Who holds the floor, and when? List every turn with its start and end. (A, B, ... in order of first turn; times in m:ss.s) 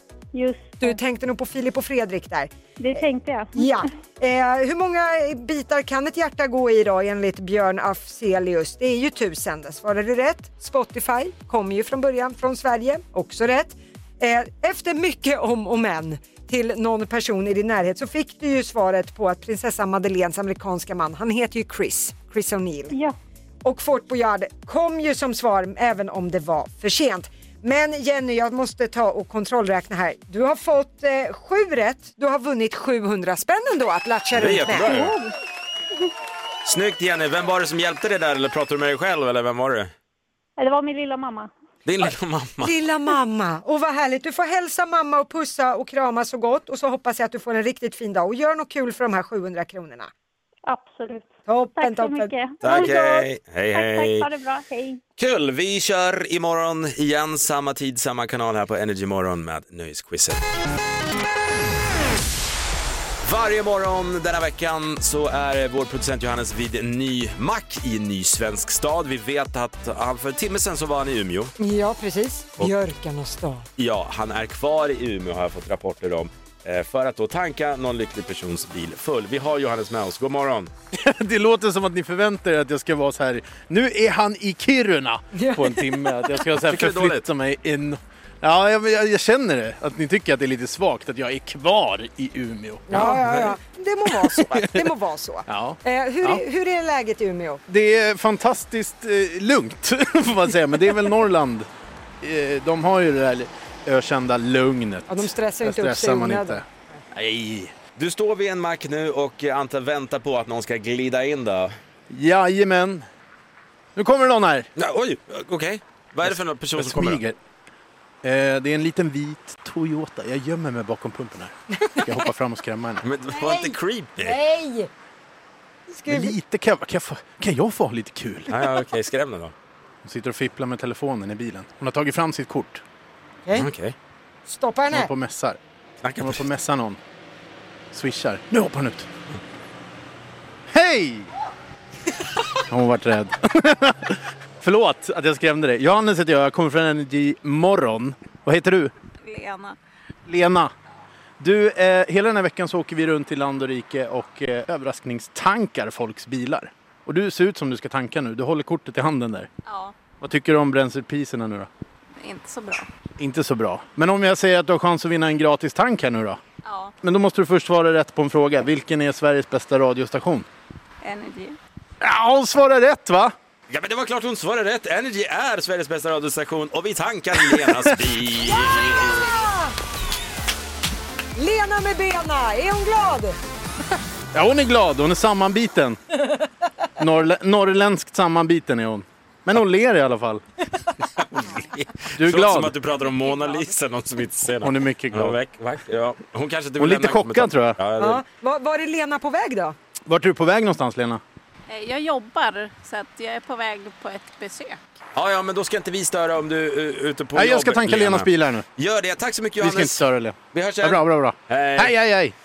0:00.3-0:01.0 A
0:00.8-0:22.9 B
0:02.8-0:03.8 A
0:22.9-0:23.2 A
0:23.6-0:35.0 B
0:34.3-0:35.2 C
0:34.8-0:35.3 A
0:36.6-0:39.9 C
0:40.6-0:41.5 A
0:41.8-0:42.7 C
0:42.6-0:50.1 B
0:50.7-0:55.0 A
0:51.5-0:52.3 B
0:52.6-0:54.3 C
0:55.2-1:00.4 C
1:03.2-1:11.5 C
1:11.6-1:13.7 B
1:13.8-1:20.7 C
1:20.9-1:33.5 D
1:25.3-1:26.2 B
1:26.7-1:27.3 C
1:32.9-1:37.6 B
1:34.3-1:34.9 D
1:35.5-1:36.4 D
1:37.7-1:41.7 D
1:42.2-1:46.6 D
1:45.1-1:46.6 B
1:47.1-1:51.7 C
1:52.1-1:53.0 D
1:54.0-1:54.7 D
1:54.8-1:57.2 C
1:56.3-1:57.4 D
1:58.2-2:03.0 D
2:01.8-2:02.0 B
2:03.0-2:04.4 C
2:03.3-2:04.9 B
2:05.9-2:06.4 B
2:06.1-2:08.7 D
2:08.5-2:09.5 C
2:10.0-2:12.8 D
2:13.5-2:13.9 C
2:14.5-2:15.1 B
2:14.9-2:15.6 D
2:16.0-2:16.4 C
2:16.2-2:17.0 D
2:17.9-2:19.1 D
2:20.7-2:21.3 D
2:22.7-2:28.9 D
2:29.2-2:29.8 E
2:30.3-2:30.7 D
2:31.4-2:39.5 D
2:39.6-2:39.9 E
2:40.2-2:41.7 D
2:42.2-2:42.9 E
2:43.2-2:46.4 D
2:46.6-2:46.9 E
2:47.0-2:50.4 D
2:51.0-2:51.6 E
2:52.0-2:53.3 D
2:53.7-2:59.4 C
2:57.4-2:57.9 D
2:58.4-2:59.7 B
3:01.4-3:03.4 B
3:04.3-3:06.2 D
3:07.0-3:10.4 D
3:11.2-3:18.2 C
3:12.1-3:12.7 D
3:14.6-3:15.4 D
3:16.8-3:17.8 D
3:18.0-3:19.7 B
3:20.1-3:21.2 D
3:21.7-3:24.8 E
3:25.1-3:31.9 C
3:27.3-3:28.6 D
3:29.6-3:32.3 D